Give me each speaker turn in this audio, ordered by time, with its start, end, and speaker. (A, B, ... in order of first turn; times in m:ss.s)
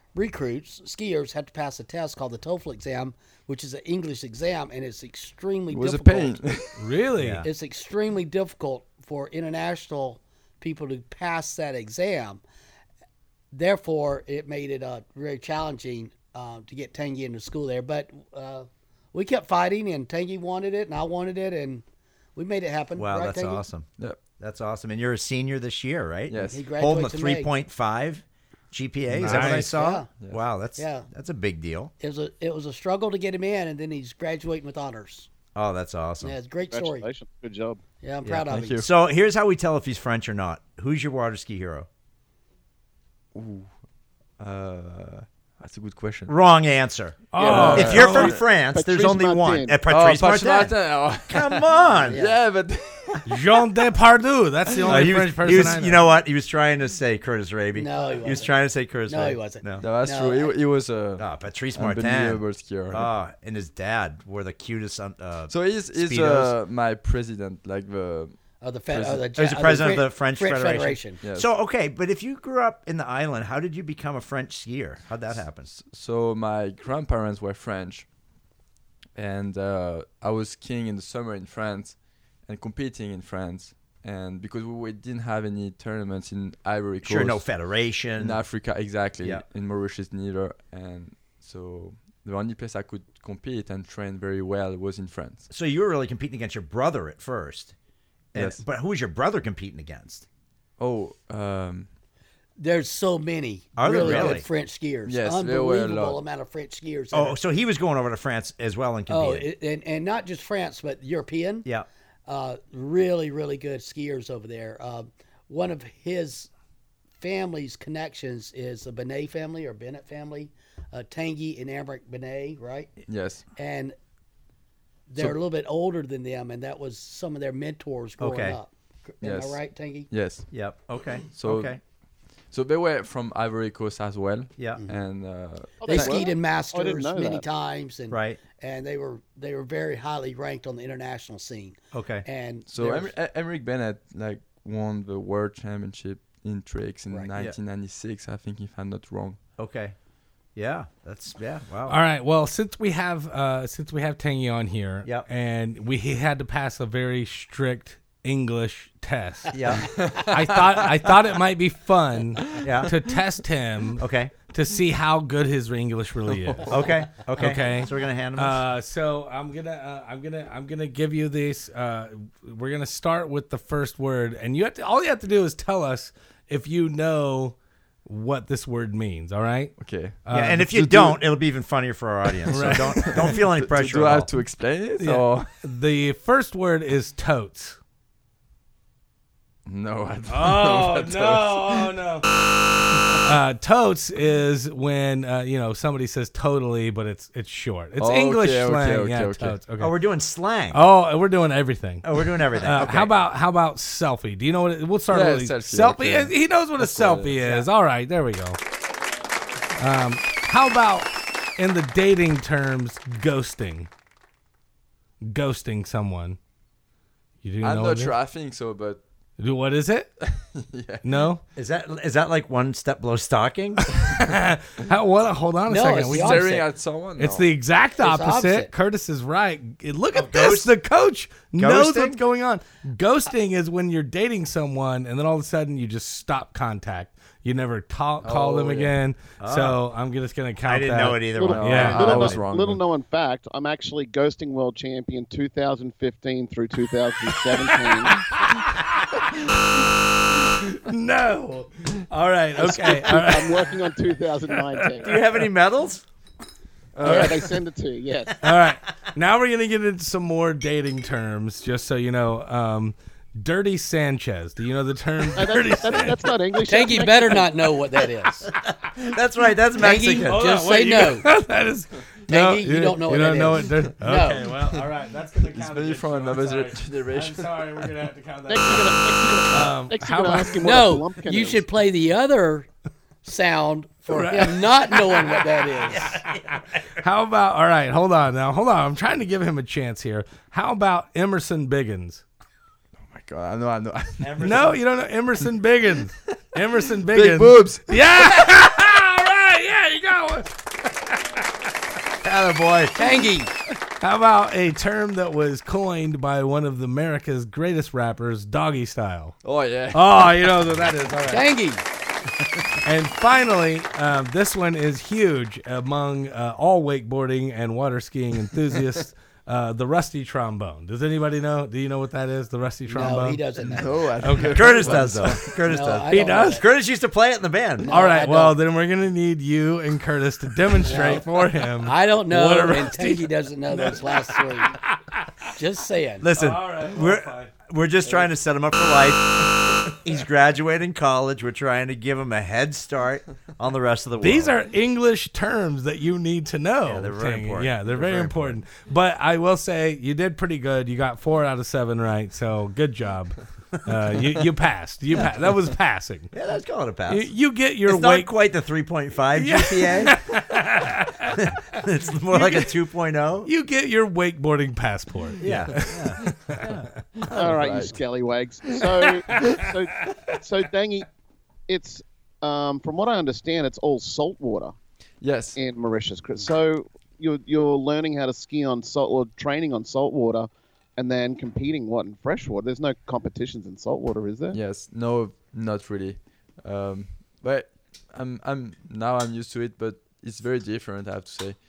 0:00.2-0:06.4 A
0:05.7-0:06.8 B
0:06.8-0:07.4 C
0:07.2-0:07.5 D
0:07.4-0:12.4 A
0:13.5-0:21.8 A
0:22.4-0:23.6 A
0:23.0-0:23.9 D
0:24.4-0:31.9 D
0:26.3-0:26.6 B
0:26.5-0:27.5 A
0:29.1-0:29.7 C
0:29.2-0:29.6 B
0:29.3-0:30.1 A
0:30.8-0:31.1 A
0:32.0-0:35.3 A
0:35.6-0:36.4 D
0:36.2-0:37.1 A
0:36.7-0:37.8 E
0:38.0-0:38.8 A
0:38.2-0:41.9 D
0:38.5-0:38.9 B
0:43.3-0:43.7 B
0:44.4-0:46.3 B
0:46.3-0:50.8 D
0:47.3-0:48.3 C
0:47.4-0:48.4 B
0:47.4-0:49.8 E
0:49.9-0:53.4 B
0:51.3-0:52.2 D
0:52.1-0:52.4 A
0:53.3-0:56.0 C
0:54.7-0:55.2 B
0:54.9-0:59.8 D
0:57.7-0:58.6 A
0:59.1-1:00.5 A
0:59.8-1:03.1 B
1:01.2-1:06.5 D
1:05.5-1:08.4 B
1:08.6-1:11.2 A
1:08.9-1:09.3 B
1:09.4-1:15.7 D
1:11.2-1:11.5 B
1:15.7-1:18.1 B
1:19.2-1:27.5 B
1:27.0-1:28.4 D
1:28.2-1:35.5 B
1:35.5-1:37.7 D
1:38.3-1:40.2 D
1:38.4-1:38.6 B
1:40.8-1:41.9 B
1:42.6-1:47.4 A
1:43.8-1:44.4 D
1:44.0-1:44.4 B
1:45.1-1:46.2 B
1:47.1-1:49.5 D
1:49.1-1:51.7 A
1:52.3-1:56.5 A
1:57.2-2:02.9 A
2:03.1-2:03.4 B
2:03.6-2:04.0 A
2:05.1-2:10.1 A
2:08.2-2:08.6 D
2:09.2-2:09.6 B
2:10.1-2:10.5 B
2:10.5-2:11.8 D
2:11.4-2:11.8 B
2:12.5-2:16.3 B
2:15.8-2:17.4 E
2:15.8-2:23.1 A
2:18.1-2:18.4 D
2:21.9-2:22.2 D
2:22.7-2:29.4 B
2:29.6-2:30.0 D
2:30.6-2:32.0 D
2:31.9-2:39.6 C
2:39.5-2:40.0 D
2:39.9-2:40.9 B
2:40.2-2:46.8 C
2:42.6-2:42.8 B
2:42.6-2:42.9 D
2:44.0-2:44.3 D
2:46.3-2:46.8 B
2:46.7-2:48.6 D
2:47.4-3:00.7 C
2:59.8-3:01.2 B
3:00.3-3:04.3 D
3:02.5-3:05.6 B
3:02.5-3:03.2 C
3:05.0-3:07.8 C
3:09.7-3:12.0 B
3:10.3-3:12.3 C
3:13.2-3:19.9 C
3:18.0-3:19.6 B
3:19.8-3:20.8 D
3:20.7-3:28.6 C
3:22.0-3:23.1 D
3:25.1-3:27.6 B
3:29.8-3:33.9 C
3:35.2-3:36.4 C
3:37.4-3:38.2 C
3:37.6-3:39.0 B
3:39.4-3:40.1 C
3:40.2-3:41.2 B
3:41.0-3:41.4 C
3:41.6-3:43.8 D
3:43.8-3:46.5 C
3:45.7-3:46.7 A
3:46.1-3:47.5 B
3:47.2-4:02.1 C
3:48.0-3:48.7 A
3:50.1-3:50.7 D
3:51.6-3:52.2 D
3:58.2-3:58.9 B
3:59.4-3:59.8 D
4:00.7-4:02.4 D
4:01.4-4:08.2 E
4:01.4-4:02.8 B
4:07.5-4:09.4 C
4:10.4-4:13.9 C
4:12.6-4:15.2 E
4:14.7-4:15.1 C
4:15.0-4:16.0 D
4:17.0-4:17.4 B
4:17.0-4:18.4 E
4:17.0-4:17.5 C
4:18.4-4:26.3 C
4:25.4-4:27.5 E
4:26.7-4:28.5 A
4:28.6-4:30.4 D
4:29.8-4:31.3 A
4:30.2-4:40.7 C
4:32.3-4:34.5 A
4:34.5-4:34.8 B
4:35.4-4:37.9 B
4:38.5-4:41.6 E
4:40.6-4:42.7 A
4:43.2-4:46.1 A
4:44.1-4:46.4 C
4:45.9-4:47.0 D
4:47.0-4:52.2 C
4:53.0-4:54.7 B
4:54.2-4:54.8 D
4:54.4-5:01.4 C
4:57.1-4:58.1 B
5:02.2-5:03.0 D
5:03.0-5:03.5 A
5:04.0-5:09.4 C
5:09.4-5:10.7 B
5:09.9-5:11.5 C
5:11.3-5:11.8 A
5:12.8-5:23.4 C
5:22.9-5:24.0 A
5:23.6-5:25.5 B
5:24.2-5:25.1 C
5:24.5-5:27.9 D
5:25.7-5:26.6 A
5:26.1-5:26.6 C
5:27.8-5:28.6 A
5:27.8-5:35.5 C
5:30.8-5:31.2 A
5:31.8-5:34.8 A
5:35.5-5:36.3 A
5:36.2-5:44.6 D
5:36.3-5:37.5 C
5:44.2-5:56.3 C
5:46.8-5:48.6 D
5:56.3-5:57.3 D
5:57.1-5:58.3 C
5:57.9-6:00.2 D
5:59.4-6:01.4 C
6:01.3-6:03.5 D
6:02.3-6:02.7 C
6:03.4-6:06.8 C
6:05.4-6:06.5 B
6:05.4-6:06.9 D
6:07.2-6:08.0 B
6:07.3-6:11.1 E
6:09.3-6:10.4 C
6:11.7-6:14.8 E
6:15.2-6:15.6 B
6:15.6-6:24.6 E
6:24.5-6:31.6 B